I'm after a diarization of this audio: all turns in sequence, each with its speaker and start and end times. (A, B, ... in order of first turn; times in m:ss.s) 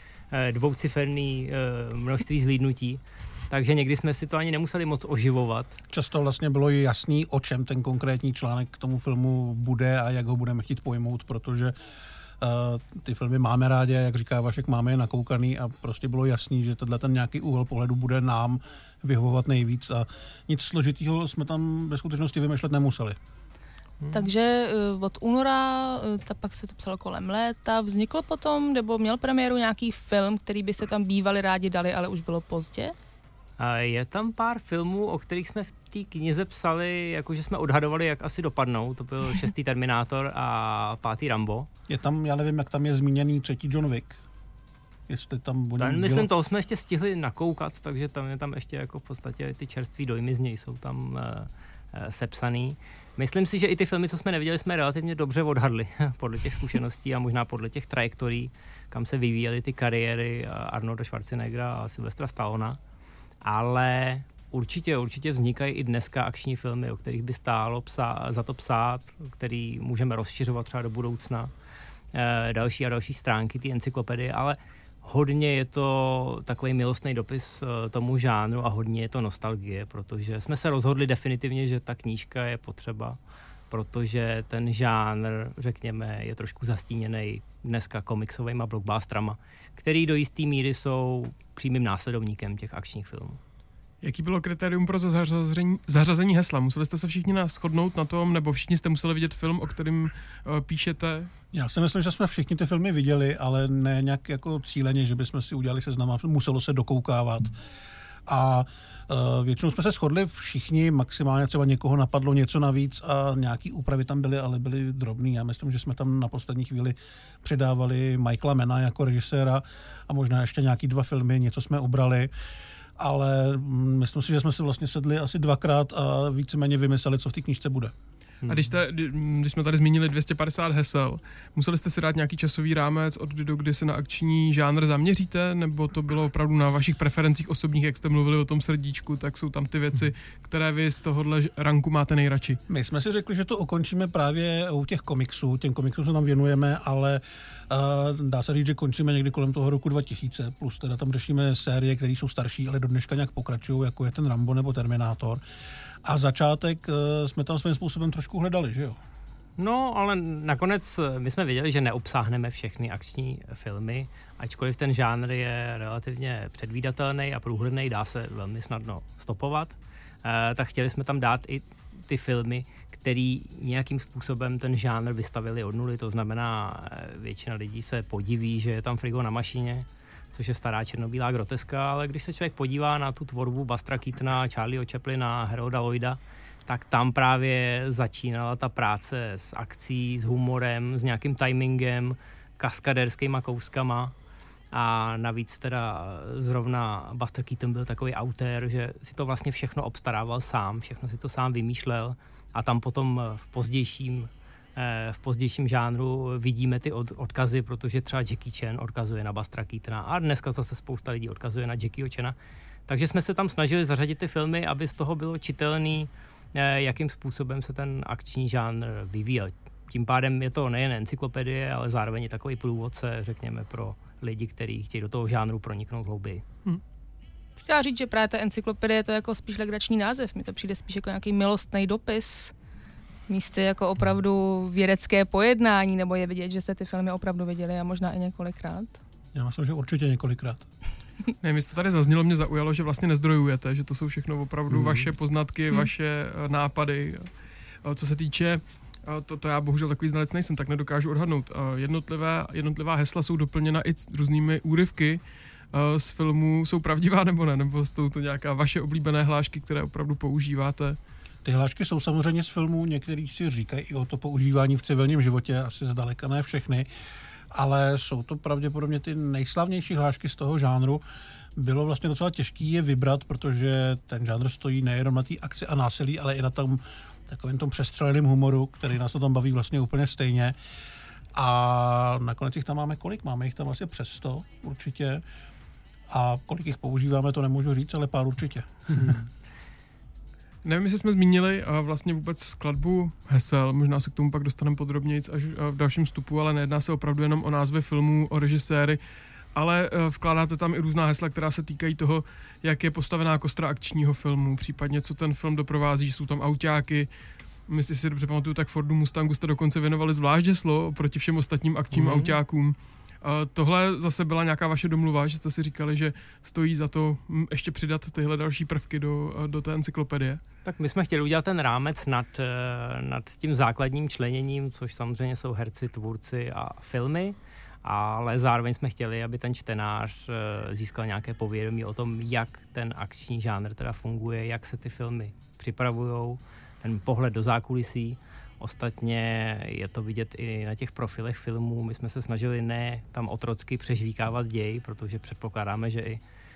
0:00.3-0:05.8 A
0:05.9-0:11.8 B
0:12.4-0:23.2 B
0:24.0-0:24.3 A
0:24.1-0:32.9 C
0:33.6-0:41.7 A
0:41.9-0:44.2 B
0:45.1-0:46.3 B
0:45.8-1:02.8 A
1:03.4-1:11.5 A
1:12.1-1:23.2 A
1:23.7-1:33.4 A
1:34.0-1:41.3 D
1:41.5-1:47.5 B
1:48.3-2:02.3 B
2:03.0-2:07.9 B
2:08.4-2:08.7 A
2:08.5-2:22.6 D
2:22.7-2:35.4 B
2:36.0-2:39.0 B
2:39.6-3:14.1 A
3:14.7-3:32.4 A
3:32.9-3:46.4 A
3:47.6-3:52.5 C
3:53.3-3:59.0 C
3:59.3-4:00.7 B
4:01.4-4:07.3 D
4:04.8-4:05.0 B
4:07.8-4:15.2 D
4:15.7-4:21.0 D
4:21.4-4:26.9 B
4:27.5-4:31.0 B
4:31.6-4:40.6 B
4:41.4-4:45.2 B
4:46.1-4:49.3 B
4:50.6-4:59.0 D
4:59.6-5:07.1 D
5:07.7-5:20.4 D
5:11.9-5:12.4 A
5:20.6-5:46.2 A